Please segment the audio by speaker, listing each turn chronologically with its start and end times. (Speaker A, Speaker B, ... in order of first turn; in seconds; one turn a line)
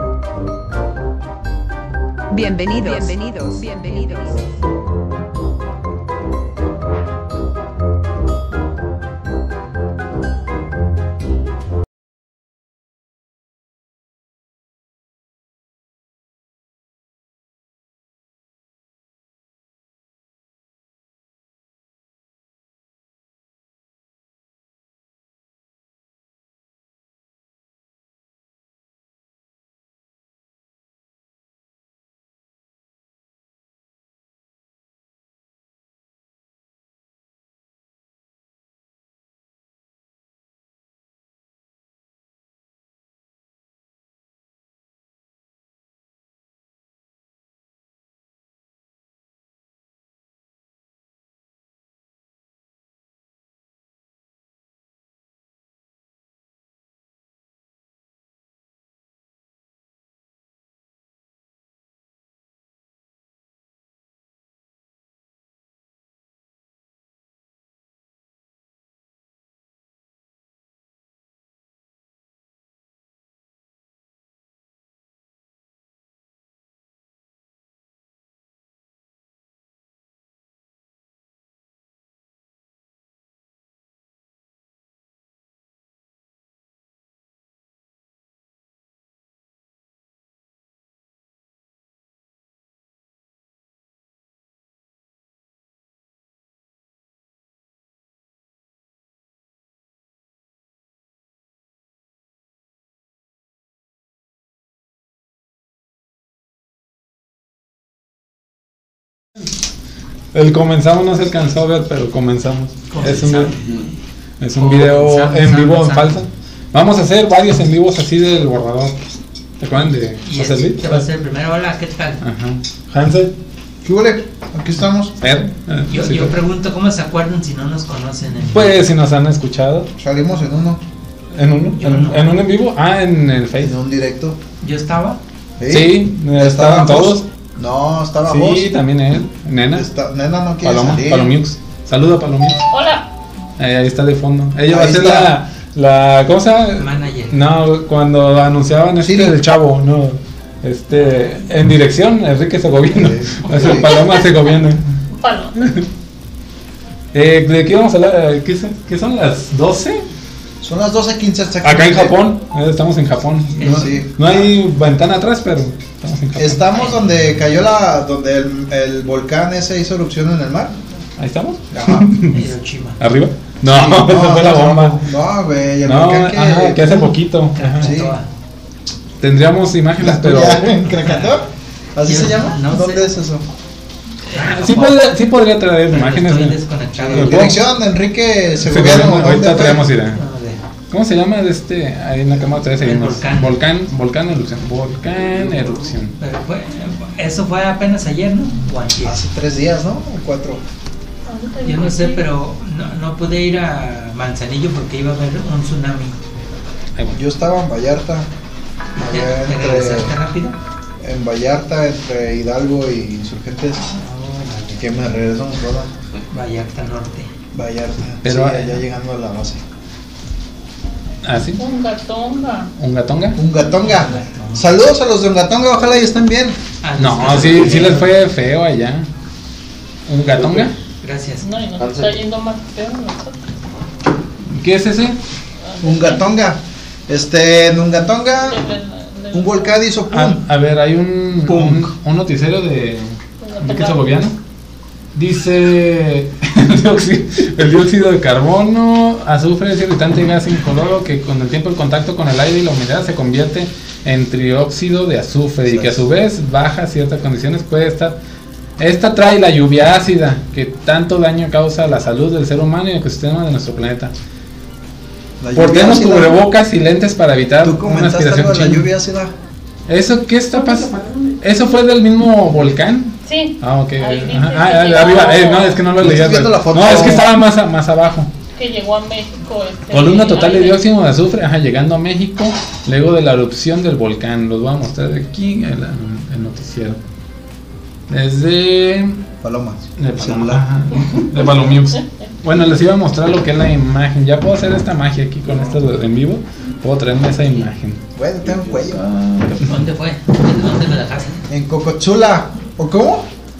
Speaker A: 2.3-4.4
Speaker B: 110.3-113.8
Speaker C: 112.9-114.0
Speaker B: 114.4-118.9
Speaker C: 114.6-116.2
Speaker B: 119.6-121.0
Speaker C: 120.2-122.2
Speaker B: 122.2-123.3
Speaker D: 123.8-125.1
Speaker B: 125.2-126.3
Speaker C: 125.9-128.8
Speaker B: 128.5-129.9
Speaker D: 130.0-130.8
Speaker B: 131.3-133.7
Speaker C: 131.8-132.3
Speaker D: 133.6-134.4
Speaker C: 134.6-135.2
Speaker D: 135.6-138.7
Speaker B: 135.7-137.2
Speaker B: 138.2-139.8
Speaker D: 139.7-141.3
Speaker B: 140.6-142.6
Speaker E: 142.7-143.1
Speaker B: 143.6-154.8
Speaker D: 144.7-145.3
Speaker C: 146.8-147.4
Speaker D: 149.0-149.3
Speaker D: 152.9-153.9
Speaker E: 155.2-155.6
Speaker B: 155.6-155.8
Speaker B: 157.1-160.0
Speaker D: 160.6-162.2
Speaker B: 161.6-166.6
Speaker C: 163.6-164.0
Speaker D: 163.6-164.5
Speaker D: 166.3-170.7
Speaker C: 166.7-167.3
Speaker B: 171.2-172.5
Speaker D: 171.7-172.1
Speaker C: 172.3-173.0
Speaker B: 173.0-175.0
Speaker D: 173.7-177.2
Speaker B: 175.8-177.9
Speaker C: 177.5-178.3
Speaker D: 177.8-178.1
Speaker B: 179.2-180.9
Speaker D: 180.0-183.4
Speaker C: 180.9-181.3
Speaker C: 182.0-183.1
Speaker C: 184.2-185.1
Speaker B: 184.3-187.6
Speaker C: 185.9-187.4
Speaker D: 187.0-189.9
Speaker B: 188.6-190.2
Speaker C: 190.1-190.6
Speaker B: 190.9-196.2
Speaker C: 192.8-193.6
Speaker C: 196.2-199.2
Speaker D: 199.0-200.6
Speaker E: 201.3-202.3
Speaker C: 201.6-206.2
Speaker D: 207.1-208.3
Speaker D: 209.0-210.2
Speaker C: 209.0-210.6
Speaker D: 211.0-213.8
Speaker C: 213.8-215.0
Speaker D: 214.8-215.9
Speaker C: 216.3-217.3
Speaker D: 217.5-219.6
Speaker B: 218.2-218.8
Speaker B: 221.2-221.6
Speaker E: 221.6-222.7
Speaker B: 222.8-223.4
Speaker D: 223.3-226.6
Speaker C: 223.6-224.8
Speaker C: 226.8-228.1
Speaker B: 227.0-229.1
Speaker B: 230.1-230.7
Speaker C: 231.0-231.4
Speaker E: 231.4-233.4
Speaker B: 234.5-235.2
Speaker E: 235.7-236.2
Speaker D: 235.8-238.6
Speaker E: 238.4-239.8
Speaker D: 239.3-240.4
Speaker B: 240.1-244.3
Speaker C: 241.5-241.9
Speaker E: 243.4-244.2
Speaker B: 245.1-258.1
Speaker D: 255.7-256.1
Speaker B: 258.8-264.1
Speaker D: 265.4-266.4
Speaker B: 265.5-268.9
Speaker D: 267.6-269.3
Speaker B: 269.9-278.3
Speaker E: 270.9-271.3
Speaker E: 273.2-275.8
Speaker D: 276.0-277.3
Speaker E: 278.6-280.8
Speaker B: 279.9-287.0
Speaker B: 288.1-289.2
Speaker D: 289.4-290.6
Speaker B: 290.0-298.0
Speaker D: 298.1-299.1
Speaker B: 298.9-299.7
Speaker C: 299.6-301.4
Speaker D: 301.5-303.3